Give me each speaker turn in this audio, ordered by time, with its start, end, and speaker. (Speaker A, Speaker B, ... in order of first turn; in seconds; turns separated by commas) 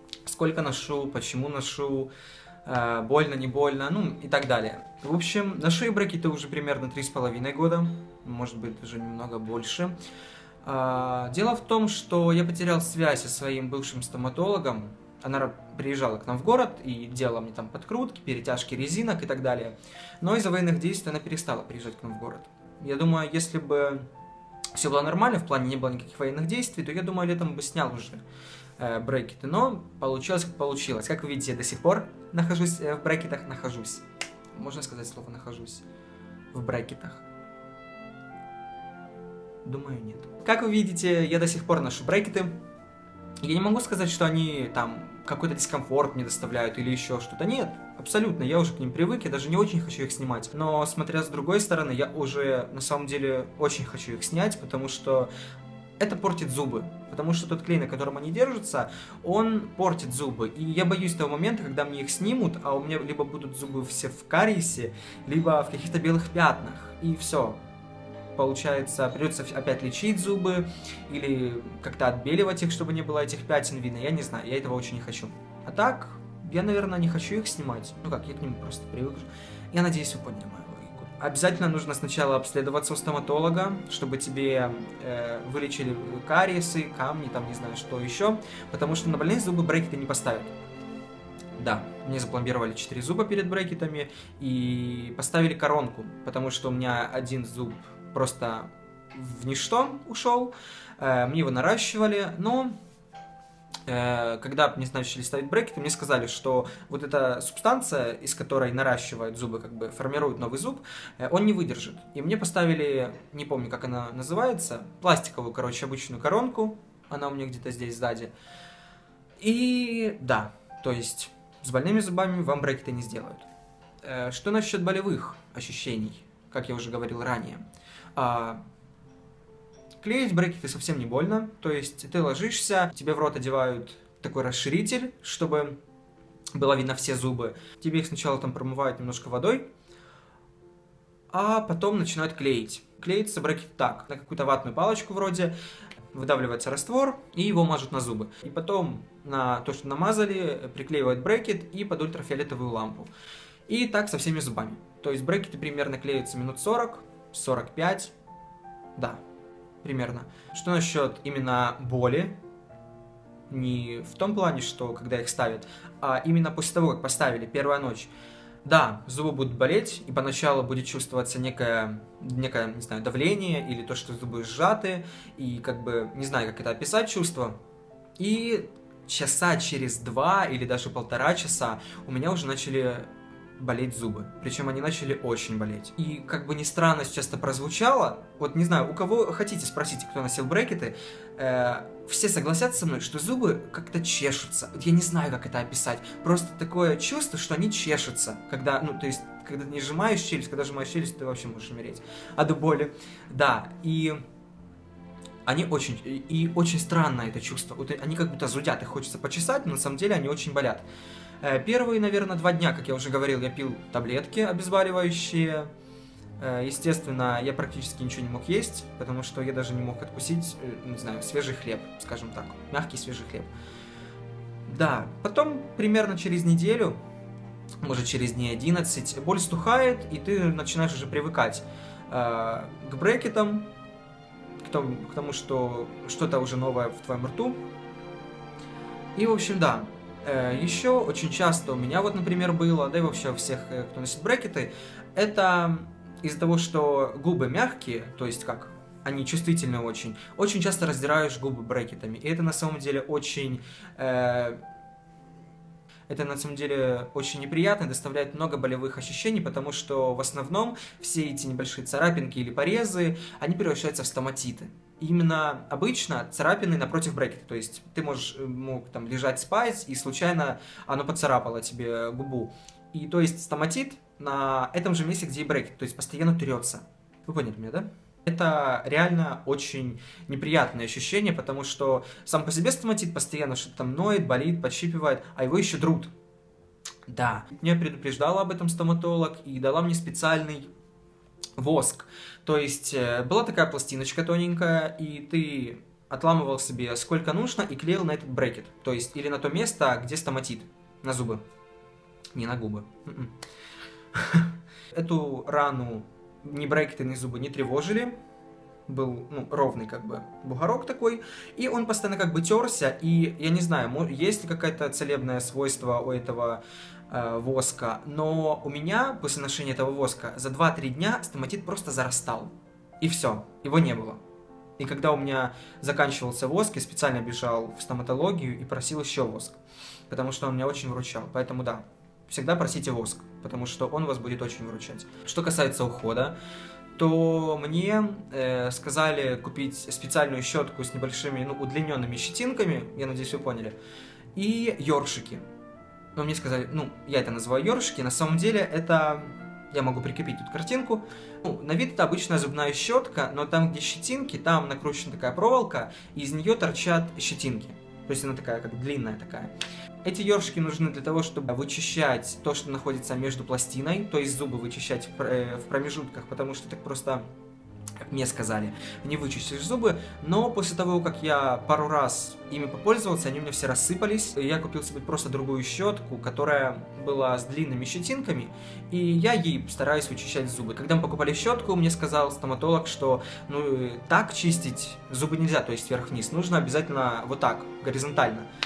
Speaker A: 0.2-2.1, Speaker A: 2.6-9.9, Speaker A: 10.6-24.1, Speaker A: 24.7-28.2, Speaker A: 28.8-35.9, Speaker A: 36.5-37.3, Speaker A: 39.6-42.6, Speaker A: 43.4-55.3, Speaker A: 56.0-67.6, Speaker A: 68.4-90.5, Speaker A: 91.6-102.7, Speaker A: 103.9-118.3, Speaker A: 119.4-123.5, Speaker A: 124.0-127.6, Speaker A: 128.2-128.6, Speaker A: 130.0-135.8, Speaker A: 136.5-139.7, Speaker A: 141.3-145.5, Speaker A: 146.1-153.1, Speaker A: 153.7-158.1, Speaker A: 159.0-159.2, Speaker A: 159.8-162.4, Speaker A: 163.5-168.1, Speaker A: 168.6-177.6, Speaker A: 178.2-204.2, Speaker A: 205.5-210.9, Speaker A: 211.4-215.7, Speaker A: 216.4-223.5, Speaker A: 224.7-227.0, Speaker A: 227.8-233.7, Speaker A: 234.6-237.6, Speaker A: 239.2-254.6, Speaker A: 256.1-286.1, Speaker A: 287.1-290.7, Speaker A: 291.6-301.4, Speaker A: 302.3-303.3, Speaker A: 304.1-308.1, Speaker A: 308.9-324.2, Speaker A: 324.8-336.4, Speaker A: 337.0-343.8, Speaker A: 344.4-345.4, Speaker A: 346.2-359.5, Speaker A: 360.0-367.2, Speaker A: 368.0-388.5